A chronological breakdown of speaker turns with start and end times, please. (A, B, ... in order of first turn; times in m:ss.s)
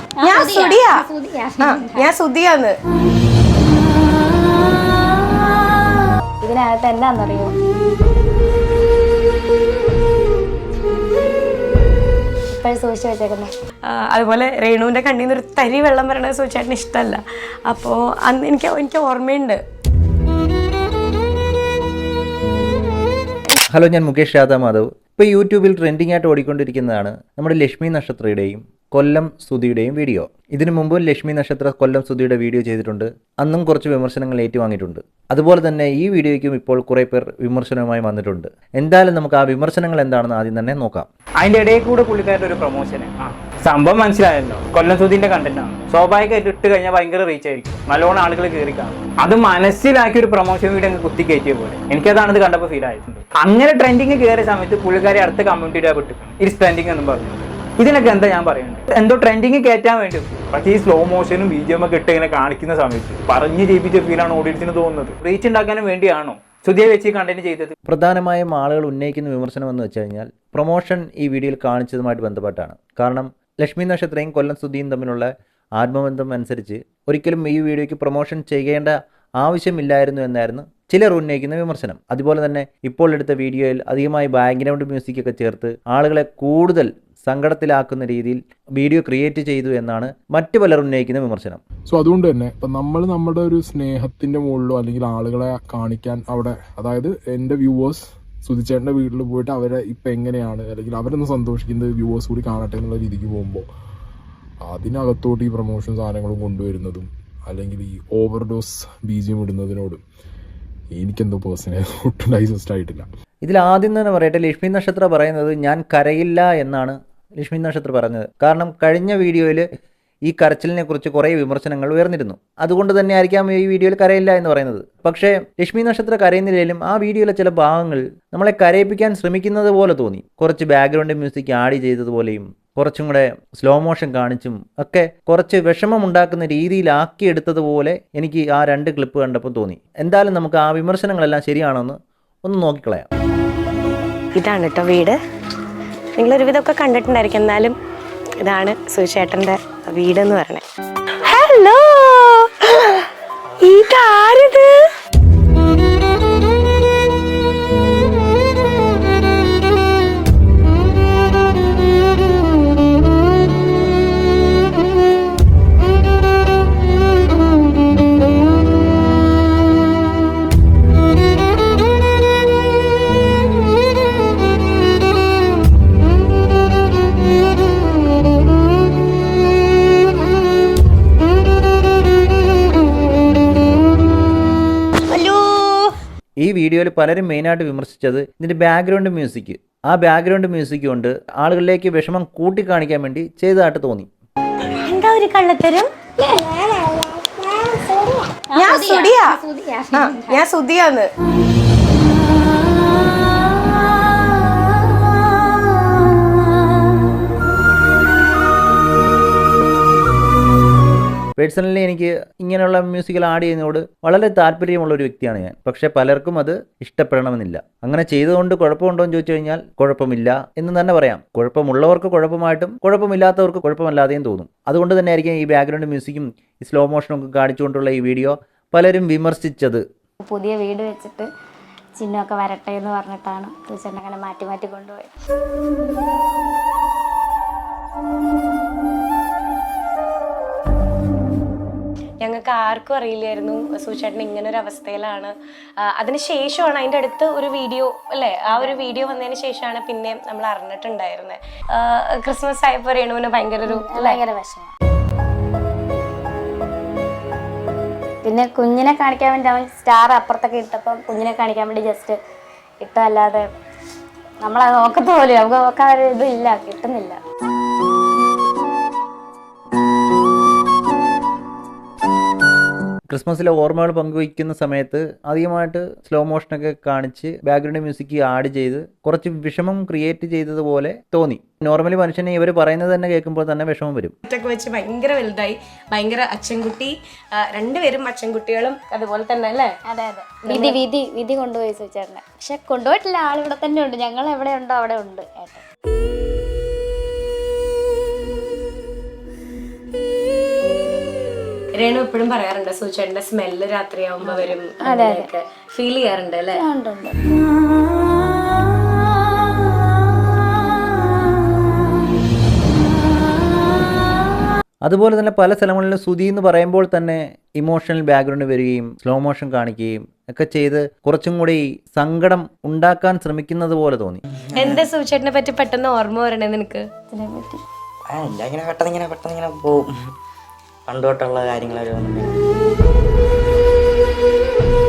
0:00.2-0:02.1 A
0:00.2-0:01.0 B
0:01.6-0:02.7 B
0:06.4-0:07.5 A
0:12.5-0:13.5 A
0:13.9-0:19.6 B
0:23.7-0:41.1 C
0:41.4-1:07.7 D
1:07.9-1:31.6 C
1:31.9-1:43.7 E
1:44.6-1:50.0 E
1:50.9-1:53.1 E
1:53.4-1:59.6 C
2:00.3-2:23.1 C
2:24.4-2:25.2 B
2:26.2-2:27.8 B
2:28.4-2:30.6 B
2:31.2-2:33.1 B
2:33.6-2:34.8 B
3:05.1-3:05.9 B
3:06.4-3:14.1 C
3:14.8-3:15.9 B
3:18.5-3:20.4 A
3:18.6-3:19.4 B
3:19.9-3:21.1 B
3:31.4-3:49.8 C
3:50.2-3:51.3 A
3:52.0-3:55.1 A
4:02.2-4:14.2 B
4:13.7-4:14.7 A
4:18.2-4:22.2 A
4:22.8-4:23.4 A
4:24.4-4:27.2 A
4:33.1-4:44.2 C
4:44.2-4:49.7 B
4:49.9-4:55.6 A
4:50.4-4:50.8 B
5:01.8-5:06.6 B
5:04.2-5:05.3 A
5:06.6-5:07.2 A
5:14.8-5:24.2 C
5:24.6-5:26.8 B
5:27.1-5:27.6 A
5:28.1-5:29.9 F
5:30.9-5:32.4 F